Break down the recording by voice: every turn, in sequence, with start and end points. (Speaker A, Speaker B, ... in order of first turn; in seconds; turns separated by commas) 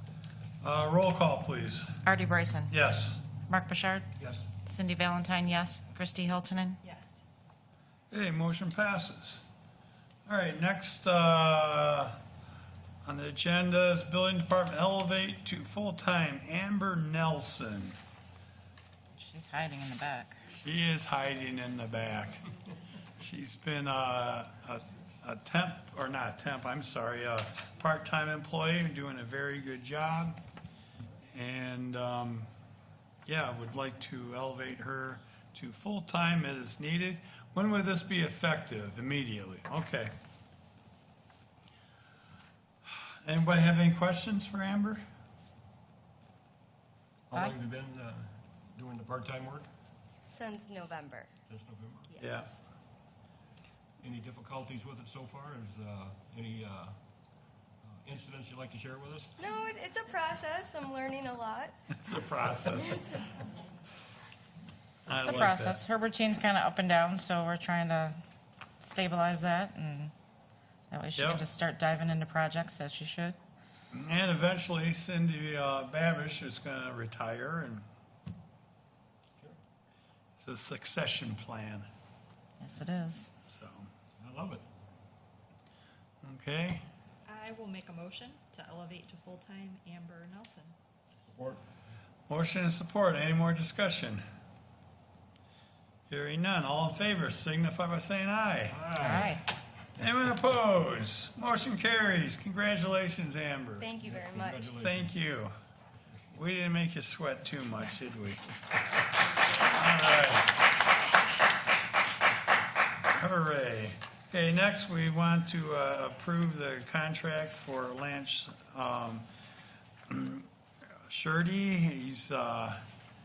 Speaker A: 0.6-1.9, Speaker B: 2.0-2.7, Speaker A: 2.7-3.2, Speaker B: 3.4-4.1, Speaker C: 4.2-4.5, Speaker B: 4.6-6.8, Speaker D: 6.8-7.2, Speaker A: 8.1-9.5, Speaker A: 10.3-12.2, Speaker A: 13.1-18.0, Speaker B: 19.1-20.4, Speaker A: 20.5-22.4, Speaker A: 23.2-30.4, Speaker A: 31.3-32.5, Speaker A: 33.3-40.1, Speaker A: 43.2-45.0, Speaker C: 47.3-49.7, Speaker E: 50.3-51.3, Speaker C: 51.5-52.1, Speaker A: 52.2-52.5, Speaker C: 54.0-57.0, Speaker C: 57.8-59.5, Speaker E: 59.4-61.8, Speaker A: 61.9-63.2, Speaker A: 65.1-65.8, Speaker B: 65.2-68.2, Speaker B: 68.8-70.1, Speaker B: 70.9-73.4, Speaker A: 71.2-71.5, Speaker A: 73.9-77.9, Speaker A: 80.4-81.9, Speaker B: 82.6-83.3, Speaker A: 83.5-83.9, Speaker C: 84.2-84.7, Speaker A: 86.2-86.8, Speaker D: 87.3-90.7, Speaker C: 91.2-91.6, Speaker A: 92.3-94.2, Speaker A: 96.1-98.8, Speaker C: 98.7-99.4, Speaker B: 99.0-99.4, Speaker A: 100.0-103.9, Speaker E: 103.8-104.7, Speaker C: 104.0-105.2, Speaker A: 104.8-105.5, Speaker A: 106.3-108.4, Speaker A: 109.6-110.5, Speaker A: 113.1-119.3, Speaker A: 120.1-120.5, Speaker A: 121.0-122.8